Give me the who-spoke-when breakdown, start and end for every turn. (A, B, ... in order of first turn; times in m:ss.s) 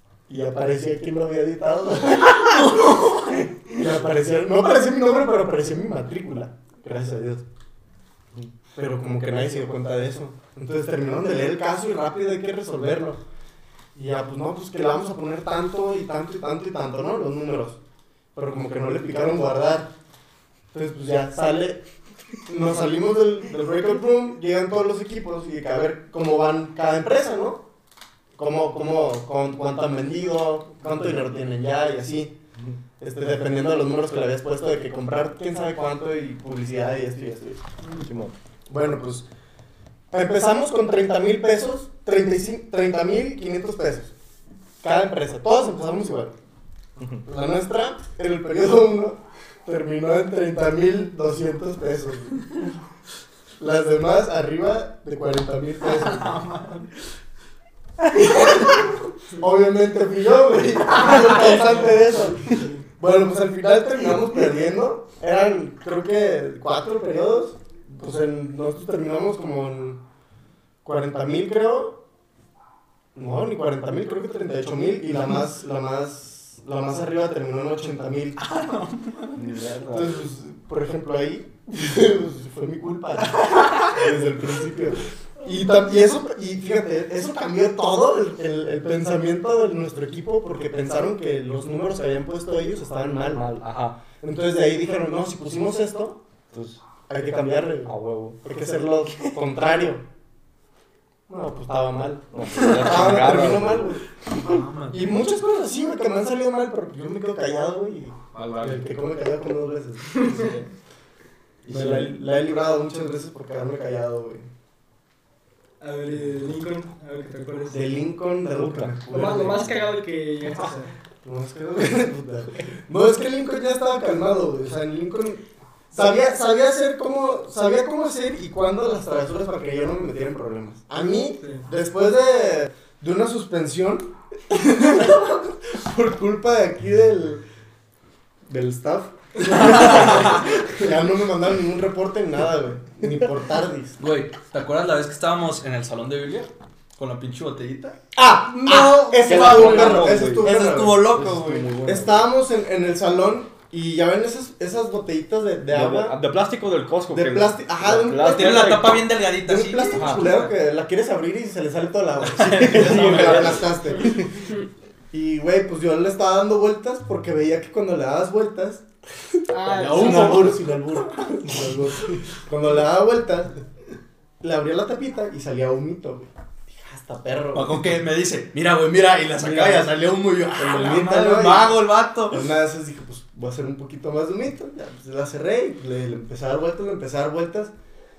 0:00.3-0:03.1 A
0:02.4-0:03.5 B
0:03.7-0:07.4 A
0:08.8-0:13.2 A
0:13.9-0:17.8 A
0:18.3-0:19.9 A
0:20.7-0:21.8 A
0:22.5-0:27.6 A
0:28.4-0:32.4 A
0:33.0-0:37.6 A
0:37.9-0:38.3 C
0:38.7-0:39.2 A
0:40.1-0:44.1 A
0:44.8-0:46.3 A
0:47.0-0:47.2 C
0:47.2-0:52.5 A
0:53.6-0:56.4 A
0:55.9-0:56.9 B
0:58.1-1:10.0 A
1:01.1-1:01.6 B
1:10.8-1:12.0 A
1:13.1-1:18.4 A
1:18.4-1:19.4 B
1:19.3-1:20.2 C
1:19.9-1:33.5 A
1:23.3-1:23.9 B
1:33.3-1:34.0 C
1:34.2-1:36.2 A
1:36.5-1:36.8 C
1:37.1-1:40.0 A
1:37.8-1:38.4 C
1:41.3-1:50.6 A
1:42.3-1:43.8 C
1:42.6-1:43.5 B
1:44.4-1:45.0 B
1:48.3-1:48.6 B
1:51.6-1:52.1 C
1:51.6-1:54.5 A
1:55.8-1:57.9 D
1:57.7-1:59.7 A
1:58.6-1:59.6 C
1:59.1-2:00.9 D
2:01.2-2:17.4 A
2:11.3-2:11.6 D
2:18.5-2:24.0 A
2:19.4-2:20.7 B
2:24.0-2:31.7 B
2:28.1-2:31.2 A
2:29.2-2:32.2 C
2:31.8-2:36.2 A
2:35.7-2:39.0 C
2:37.1-2:44.2 A
2:38.2-2:40.5 B
2:39.9-2:40.3 C
2:42.2-2:43.7 B
2:42.4-2:44.3 C
2:45.1-2:48.8 A
2:49.5-2:50.6 D
2:49.6-2:50.6 B
2:49.9-2:53.5 A
2:54.4-2:57.8 A
2:57.5-3:02.4 B
2:59.4-2:59.9 A
3:00.5-3:01.8 A
3:02.3-3:07.7 A